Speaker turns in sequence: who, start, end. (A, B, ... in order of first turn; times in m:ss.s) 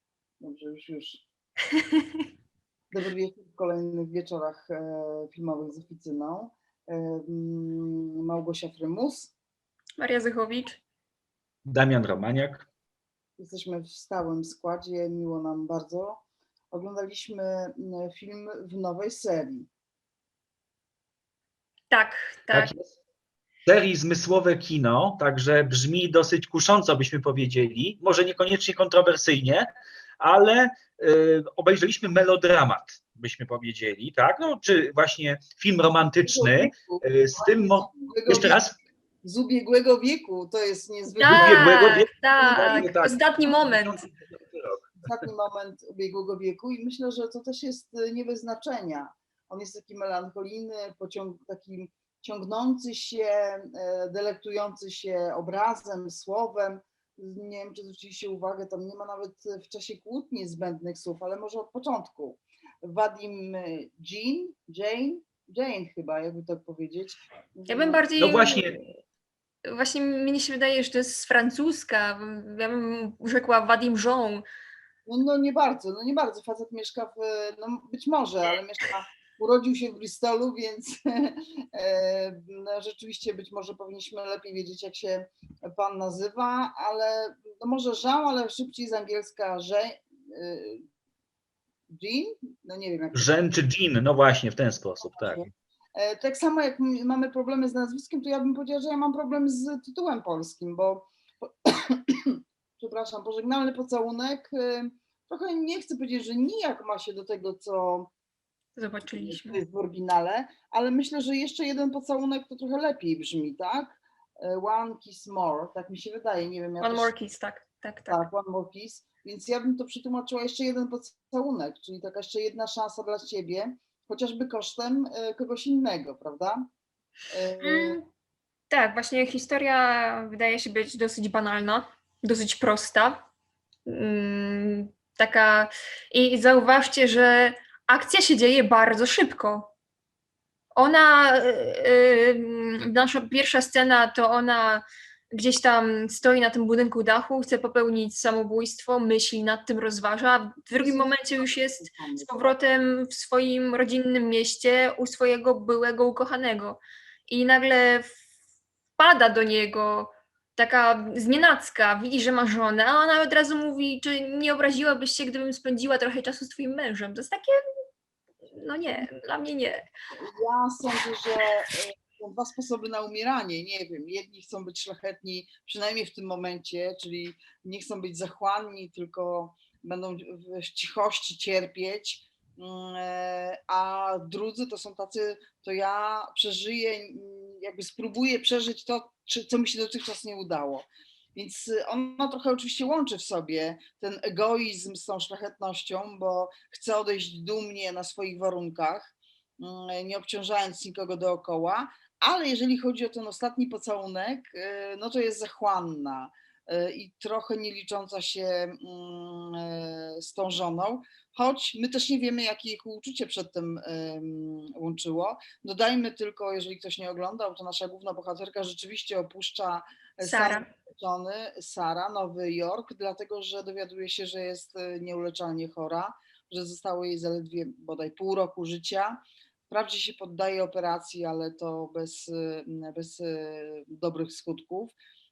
0:00.4-0:01.2 A
0:01.7-0:02.3 B
0:02.9-0:09.3 A
0:10.0-0:10.8 B
0:11.7-0:12.7 C
0:13.4-0:16.2 A
0:16.7-0:19.7 A
0:21.9-0:22.7 B
0:22.5-0:22.9 C
0:23.6-0:29.7 C
0:30.2-0:38.8 C
0:36.2-0:38.6 A
0:39.2-0:41.8 A
0:41.2-0:44.0 B
0:41.2-0:45.3 C
0:45.0-1:08.0 A
1:07.7-1:08.9 B
1:08.2-1:08.8 C
1:09.7-1:14.4 B
1:15.1-1:30.8 A
1:31.9-1:33.3 A
1:33.1-1:35.4 C
1:35.2-1:48.1 A
1:48.8-1:49.6 B
1:49.1-1:57.1 A
1:56.8-1:58.2 B
1:58.1-2:06.6 A
2:07.3-2:08.0 A
2:07.6-2:08.0 B
2:08.7-2:13.2 B
2:13.8-2:19.7 B
2:20.7-2:38.1 B
2:30.8-2:32.5 A
2:39.0-2:47.6 B
2:48.5-2:49.8 B
2:50.1-3:54.9 A
3:40.2-3:40.7 B